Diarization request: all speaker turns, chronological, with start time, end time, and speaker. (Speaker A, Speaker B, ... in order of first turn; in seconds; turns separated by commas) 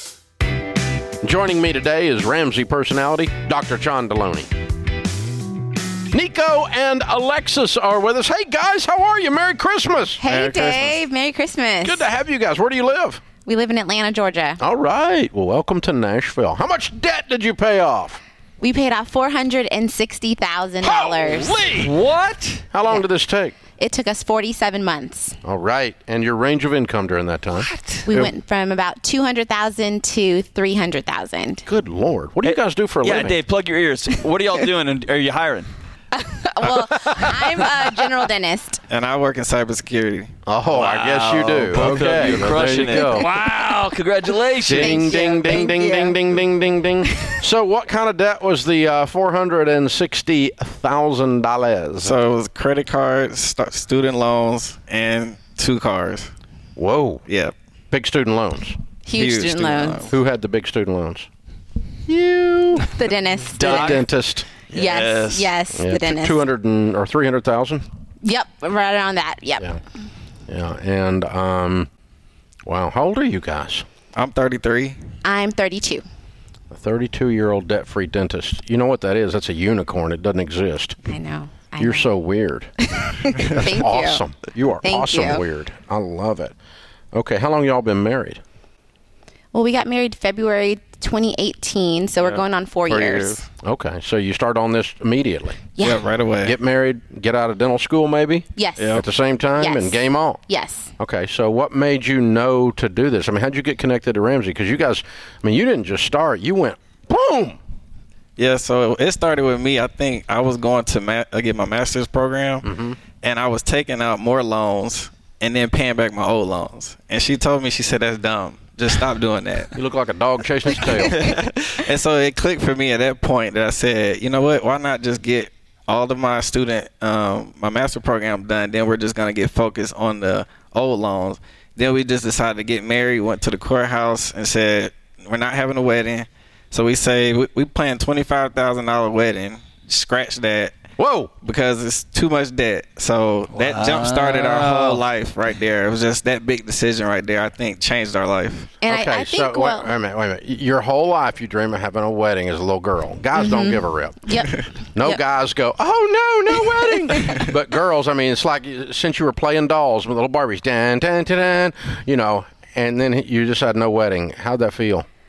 Speaker A: 1.2-4.5, Speaker A: 6.1-10.2, Speaker B: 10.2-12.1, Speaker C: 10.2-11.0, Speaker A: 11.8-13.2, Speaker B: 13.4-14.6, Speaker A: 14.6-18.2, Speaker B: 18.6-21.6, Speaker A: 20.8-21.9, Speaker D: 21.8-22.6, Speaker A: 22.7-23.5, Speaker B: 23.8-25.4, Speaker A: 25.4-28.3, Speaker D: 27.6-28.1, Speaker B: 28.1-31.6, Speaker A: 31.6-33.4, Speaker D: 32.4-35.7, Speaker B: 36.1-38.8, Speaker C: 38.9-40.3, Speaker A: 40.5-43.3, Speaker D: 40.7-45.2, Speaker A: 44.6-52.1, Speaker B: 44.7-46.2, Speaker B: 47.0-47.3, Speaker C: 52.0-56.3, Speaker A: 56.8-57.2, Speaker C: 57.3-57.5, Speaker A: 57.9-58.8, Speaker B: 59.0-60.1, Speaker C: 59.1-60.1, Speaker A: 60.1-61.3, Speaker A: 62.1-63.0, Speaker B: 62.9-64.0, Speaker A: 63.5-64.5, Speaker D: 63.6-64.0, Speaker D: 64.7-65.5, Speaker B: 64.7-66.4, Speaker A: 65.7-67.8, Speaker B: 68.2-69.7, Speaker A: 70.5-71.9, Speaker A: 72.7-73.8, Speaker C: 74.1-75.0, Speaker B: 75.2-76.0, Speaker A: 76.7-81.0, Speaker B: 81.0-82.1, Speaker A: 81.8-82.7, Speaker B: 82.9-84.2, Speaker A: 83.4-86.5, Speaker B: 84.8-85.4, Speaker A: 87.1-88.4, Speaker B: 89.5-93.4, Speaker C: 92.2-93.5, Speaker A: 93.6-95.7, Speaker B: 95.8-96.0, Speaker C: 95.8-96.5, Speaker A: 96.4-100.4, Speaker B: 98.5-100.9, Speaker C: 98.8-99.0, Speaker A: 101.0-107.6, Speaker C: 108.4-112.7, Speaker A: 112.6-113.0, Speaker C: 113.2-119.7, Speaker A: 119.7-121.2, Speaker C: 120.7-140.7, Speaker A: 141.0-141.3, Speaker C: 141.4-148.7, Speaker D: 143.5-145.0, Speaker B: 148.8-149.9, Speaker A: 148.8-154.3, Speaker B: 153.4-155.2, Speaker A: 154.9-165.1, Speaker B: 157.1-157.4